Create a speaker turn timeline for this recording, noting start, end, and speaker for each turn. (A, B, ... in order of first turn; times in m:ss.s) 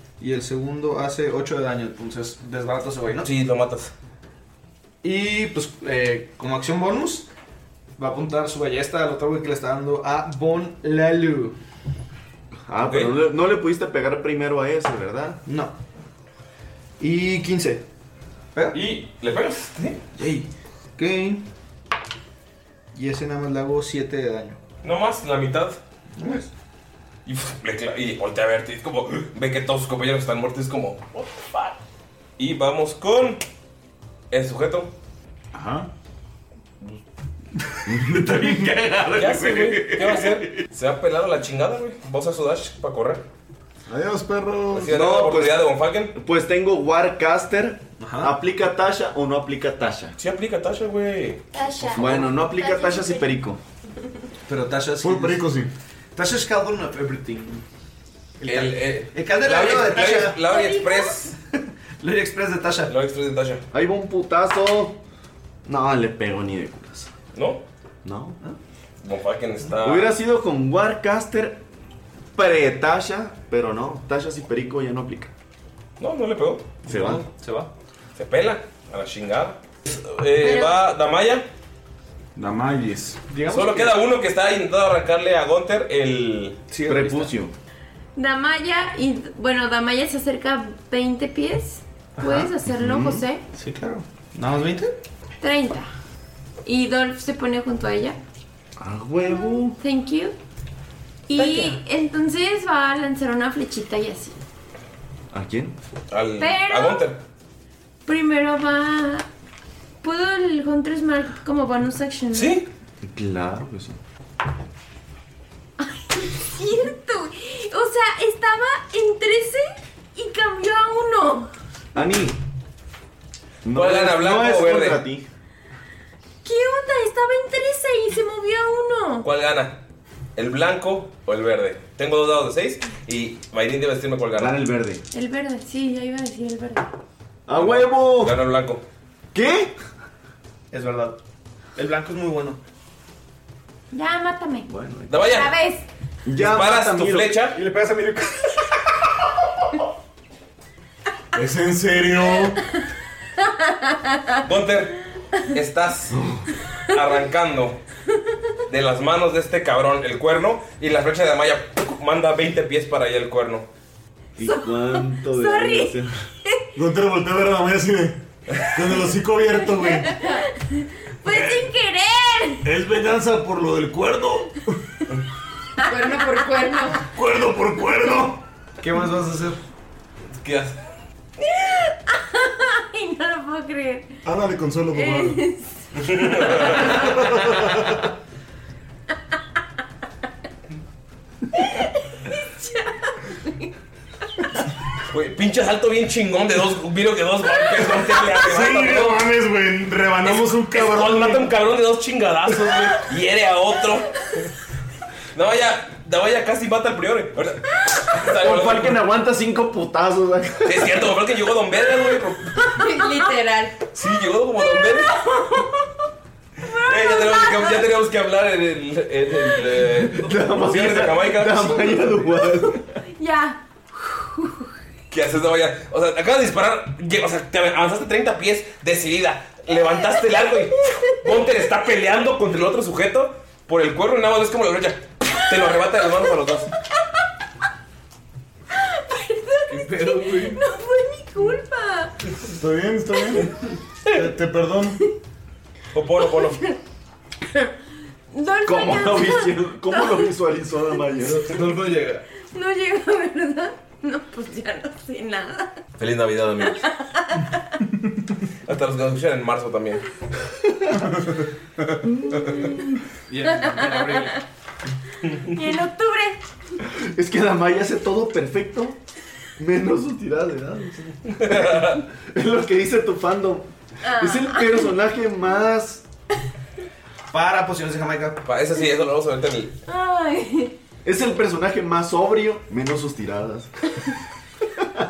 0:00.2-0:03.3 A
0:03.2-0:03.9 B
0:05.0-0:07.3 A
0:08.0-0:11.6 A
0:12.6-0:15.4 C
0:12.8-0:13.2 B
0:15.4-0:15.7 A
0:17.0-0:17.8 A
0:18.7-0:20.0 B
0:20.1-0:21.4 A
0:22.9-0:24.6 A
0:24.8-0:25.8 B
0:26.2-0:26.5 A
0:27.2-0:31.8 B
0:32.4-0:33.4 B
0:34.3-0:34.9 B
0:35.5-0:35.9 D
0:37.9-0:38.2 C
0:38.0-0:40.5 A
0:39.1-0:43.2 B
0:43.9-0:44.9 D
0:44.7-0:46.1 B
0:44.8-0:50.1 C
0:48.0-0:48.4 A
0:50.2-0:51.4 B
0:51.5-0:53.3 E
0:51.9-0:53.6 C
0:54.5-0:55.5 A
0:55.0-0:55.7 D
0:56.1-0:57.6 A
0:58.4-1:00.4 A
0:58.4-1:01.3 B
1:00.4-1:01.3 E
1:02.0-1:02.9 A
1:02.9-1:03.6 B
1:03.7-1:05.0 C
1:05.6-1:07.1 C
1:07.3-1:07.6 B
1:08.0-1:08.4 C
1:09.0-1:10.1 B
1:09.8-1:11.6 C
1:12.3-1:15.3 C
1:16.0-1:16.7 B
1:16.8-1:17.7 A
1:16.9-1:17.2 C
1:18.1-1:21.5 B
1:20.4-1:20.8 F
1:22.4-1:23.2 D
1:23.3-1:24.0 A
1:23.5-1:26.6 B
1:26.7-1:27.3 A
1:26.8-1:27.5 C
1:28.2-1:33.4 E
1:32.2-1:32.6 A
1:32.6-1:33.2 C
1:33.5-1:35.0 A
1:35.4-1:35.9 E
1:36.6-1:38.2 E
1:38.8-1:39.8 C
1:39.2-1:40.4 E
1:41.3-1:44.4 E
1:41.4-1:41.8 A
1:45.3-1:45.8 C
1:46.1-1:47.2 B
1:46.4-1:47.0 E
1:48.0-1:49.2 E
1:50.0-1:52.6 E
1:52.3-1:52.7 B
1:53.0-1:54.0 C
1:55.8-2:01.5 E
2:01.9-2:02.4 C
2:03.6-2:05.2 C
2:03.7-2:05.0 B
2:06.4-2:09.2 E
2:09.2-2:09.8 B
2:10.4-2:14.6 B
2:14.4-2:15.0 C
2:15.1-2:16.9 E
2:17.5-2:18.4 C
2:17.5-2:18.8 B
2:19.3-2:19.7 C
2:20.7-2:21.2 A
2:21.8-2:22.6 A
2:23.9-2:25.8 E
2:24.7-2:25.2 C
2:25.1-2:25.5 B
2:26.2-2:27.4 C
2:26.4-2:27.6 B
2:27.5-2:28.8 A
2:31.3-2:32.6 D
2:33.4-2:34.3 E
2:34.4-2:35.0 B
2:35.5-2:36.2 B
2:36.1-2:36.4 C
2:36.9-2:37.8 B
2:38.7-2:43.7 B
2:44.4-2:46.1 C
2:44.4-2:45.9 E
2:46.7-2:50.2 D
2:49.8-2:52.6 E
2:51.3-2:51.6 G
2:52.7-2:54.4 G
2:53.2-2:54.5 D
2:55.8-2:56.1 E
2:55.8-2:57.0 F
2:57.1-2:58.4 G
2:58.8-2:59.6 A
3:00.4-3:00.8 B
3:01.4-3:04.2 E
3:04.2-3:05.4 D
3:04.9-3:07.3 E
3:06.0-3:07.4 B
3:07.3-3:07.6 D
3:11.5-3:13.7 E
3:15.1-3:19.2 B
3:18.4-3:21.5 D
3:20.2-3:24.2 B
3:25.3-3:29.0 B
3:28.3-3:31.0 C
3:30.6-3:32.7 B
3:32.6-3:32.9 E
3:32.7-3:33.8 F
3:33.9-3:35.2 B
3:34.7-3:35.7 E
3:36.6-3:37.8 E
3:36.8-3:42.1 B
3:39.9-3:42.8 C
3:43.2-3:44.6 E
3:45.1-3:56.7 B
3:49.8-3:51.2 E
3:58.7-4:02.1 E
3:59.7-4:00.6 A
4:02.5-4:03.5 D
4:04.1-4:05.0 D
4:05.9-4:06.6 B
4:06.5-4:06.7 E
4:08.3-4:10.3 E
4:08.6-4:11.6 C
4:11.5-4:12.2 A
4:12.5-4:15.7 E
4:16.0-4:16.9 B
4:16.6-4:17.8 E
4:18.7-4:20.0 B
4:23.3-4:24.4 A
4:23.6-4:24.4 E
4:25.4-4:26.4 E
4:26.8-4:29.0 C
4:29.6-4:36.0 C
4:31.4-4:32.0 B
4:34.0-4:34.9 E
4:37.3-4:38.4 A
4:38.4-4:39.8 B
4:39.8-4:40.7 E
4:41.0-4:43.7 C